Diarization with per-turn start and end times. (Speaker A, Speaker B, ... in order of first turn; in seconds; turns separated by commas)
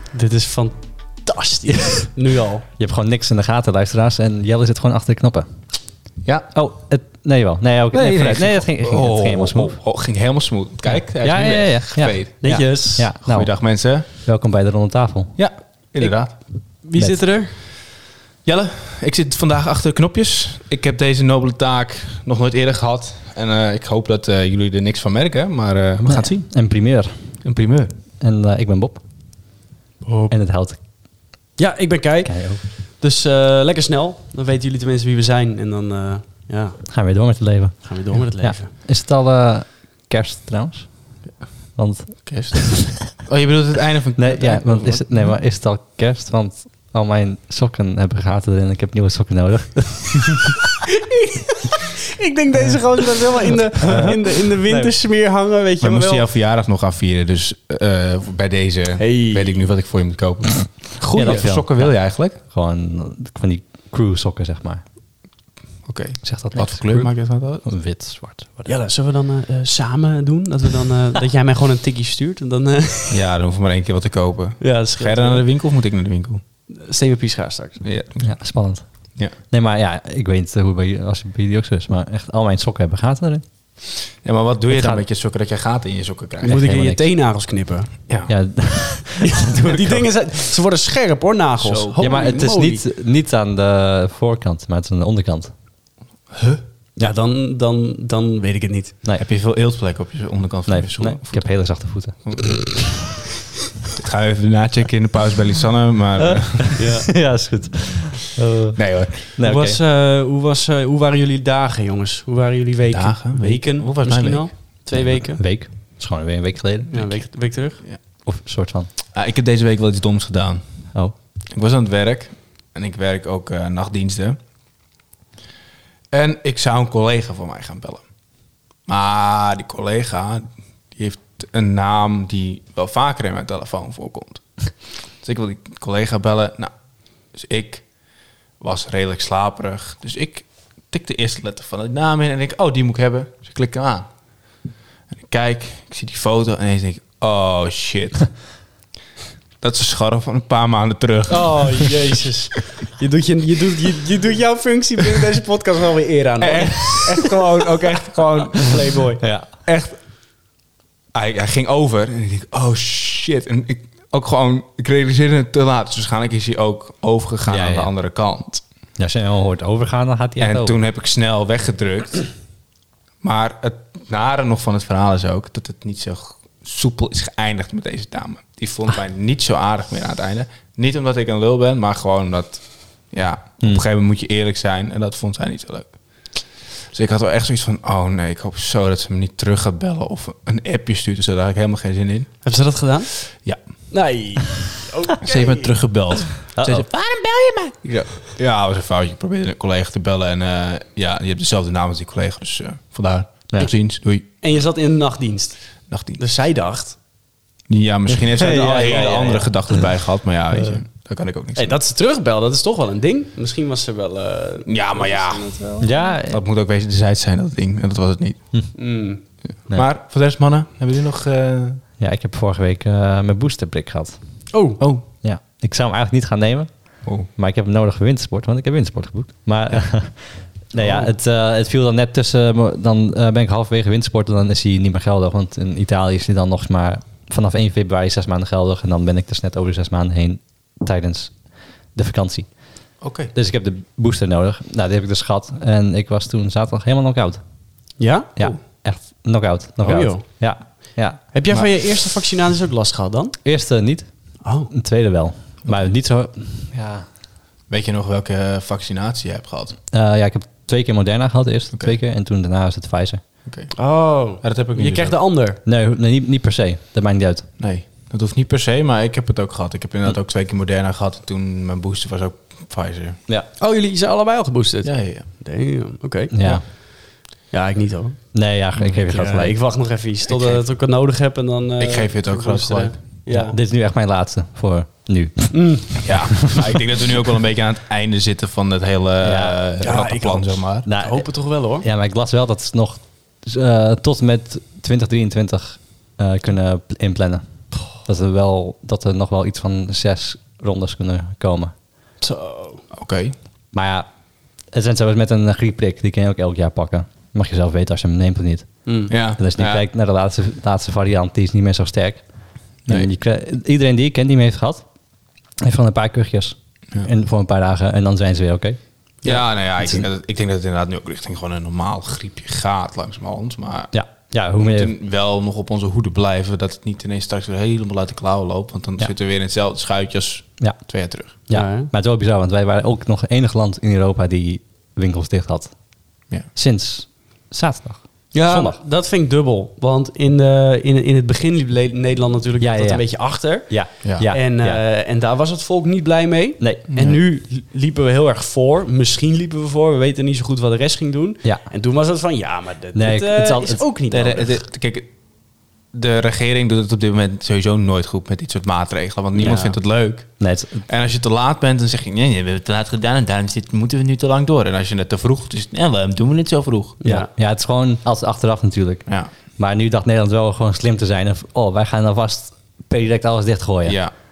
Speaker A: 0.1-2.6, Speaker B: 1.8-2.1, Speaker B: 2.8-5.5, Speaker C: 6.2-6.5, Speaker B: 6.5-9.8, Speaker C: 7.9-12.5, Speaker B: 10.8-15.3, Speaker A: 12.4-13.1, Speaker C: 13.1-14.0, Speaker C: 15.4-16.4, Speaker A: 16.8-17.6, Speaker B: 17.0-17.2, Speaker C: 18.4-26.5, Speaker B: 26.1-27.4, Speaker C: 27.4-27.9, Speaker B: 28.2-29.0, Speaker A: 30.0-30.3, Speaker B: 30.3-30.8, Speaker A: 31.6-36.9, Speaker B: 32.2-32.6, Speaker B: 36.9-41.2, Speaker A: 37.8-38.7, Speaker B: 41.8-43.1, Speaker C: 42.2-45.4, Speaker B: 44.2-50.6, Speaker A: 50.9-56.2, Speaker B: 53.8-54.9, Speaker C: 53.9-54.1, Speaker C: 55.8-62.4, Speaker A: 59.0-59.6, Speaker A: 61.0-61.5, Speaker B: 61.1-64.8, Speaker C: 65.8-67.7, Speaker B: 66.2-68.7, Speaker A: 68.7-73.2, Speaker C: 73.1-76.4, Speaker A: 74.6-75.4, Speaker A: 76.7-77.8, Speaker C: 77.8-78.3, Speaker B: 78.2-78.8, Speaker B: 79.5-83.4, Speaker C: 84.2-86.6, Speaker B: 84.7-85.0, Speaker A: 86.4-87.9, Speaker B: 86.5-87.0, Speaker B: 88.3-90.0, Speaker A: 89.2-92.8, Speaker C: 91.6-92.0, Speaker B: 92.0-95.5, Speaker C: 96.3-96.6, Speaker A: 97.0-99.0, Speaker C: 99.2-101.5, Speaker B: 100.7-102.4, Speaker C: 102.2-102.9, Speaker C: 103.9-106.8, Speaker B: 106.2-109.8, Speaker A: 106.8-107.1, Speaker C: 108.8-109.2, Speaker A: 109.4-115.4, Speaker C: 112.9-114.5, Speaker B: 114.9-117.2, Speaker A: 116.9-117.8, Speaker B: 118.2-118.9, Speaker C: 119.1-120.6, Speaker C: 121.5-124.4, Speaker C: 126.1-128.0, Speaker C: 128.8-134.4, Speaker C: 135.2-136.7, Speaker C: 137.3-137.8, Speaker C: 138.6-144.1, Speaker C: 145.2-148.3, Speaker C: 149.6-151.9, Speaker A: 151.3-157.6, Speaker C: 156.4-159.0, Speaker A: 158.5-159.2, Speaker B: 159.2-159.5, Speaker C: 159.6-159.9, Speaker C: 161.1-168.6, Speaker B: 167.5-167.9, Speaker B: 169.0-170.7, Speaker C: 170.4-172.3, Speaker C: 173.2-185.9, Speaker C: 186.9-192.3, Speaker A: 192.4-193.1, Speaker A: 193.9-195.7, Speaker C: 195.2-204.2, Speaker B: 196.5-196.9, Speaker A: 204.4-205.6, Speaker C: 205.9-206.2, Speaker A: 206.2-206.9, Speaker C: 207.7-211.8, Speaker B: 208.3-209.9, Speaker A: 208.4-209.5, Speaker A: 211.5-216.1, Speaker C: 214.7-215.5, Speaker B: 215.8-216.4, Speaker C: 216.3-218.4, Speaker A: 218.7-219.2, Speaker C: 219.6-221.8, Speaker B: 222.0-224.2, Speaker A: 224.5-224.8, Speaker C: 224.8-225.0, Speaker B: 225.2-247.4, Speaker C: 230.7-231.1, Speaker C: 243.0-243.3, Speaker A: 248.0-248.3, Speaker B: 248.4-251.2, Speaker A: 249.8-250.2, Speaker A: 250.8-253.3, Speaker B: 253.4-257.1, Speaker A: 254.4-254.7, Speaker C: 257.7-259.8, Speaker B: 259.9-263.2, Speaker C: 263.4-263.7, Speaker A: 263.7-265.6, Speaker C: 264.4-265.2, Speaker B: 265.6-267.5, Speaker C: 267.6-273.2, Speaker A: 273.6-278.4, Speaker C: 274.8-275.3, Speaker B: 276.3-276.6, Speaker B: 278.3-279.6, Speaker A: 278.9-283.5, Speaker C: 280.3-280.6, Speaker C: 281.8-283.0, Speaker B: 283.3-286.8, Speaker A: 285.5-286.0, Speaker C: 286.0-290.9, Speaker B: 289.2-289.6, Speaker A: 289.8-291.9, Speaker B: 290.9-291.3, Speaker B: 291.8-301.7, Speaker A: 302.2-302.8, Speaker C: 302.9-303.3, Speaker B: 303.7-304.1, Speaker B: 304.7-312.2, Speaker A: 308.9-309.1, Speaker C: 309.1-309.8, Speaker B: 312.8-314.8, Speaker B: 315.6-318.8, Speaker C: 319.2-323.9, Speaker B: 323.9-324.9, Speaker C: 324.6-331.3, Speaker B: 330.6-335.7, Speaker A: 331.5-331.9, Speaker B: 336.5-338.8, Speaker A: 338.3-354.6, Speaker B: 342.6-344.8, Speaker C: 344.0-344.3, Speaker B: 346.6-346.9, Speaker C: 346.9-347.2, Speaker B: 352.9-353.8, Speaker C: 354.1-355.1, Speaker C: 355.9-367.0, Speaker A: 359.4-359.7, Speaker B: 359.4-359.7, Speaker B: 360.4-360.8, Speaker A: 367.0-367.3, Speaker B: 367.0-374.1, Speaker C: 373.9-374.1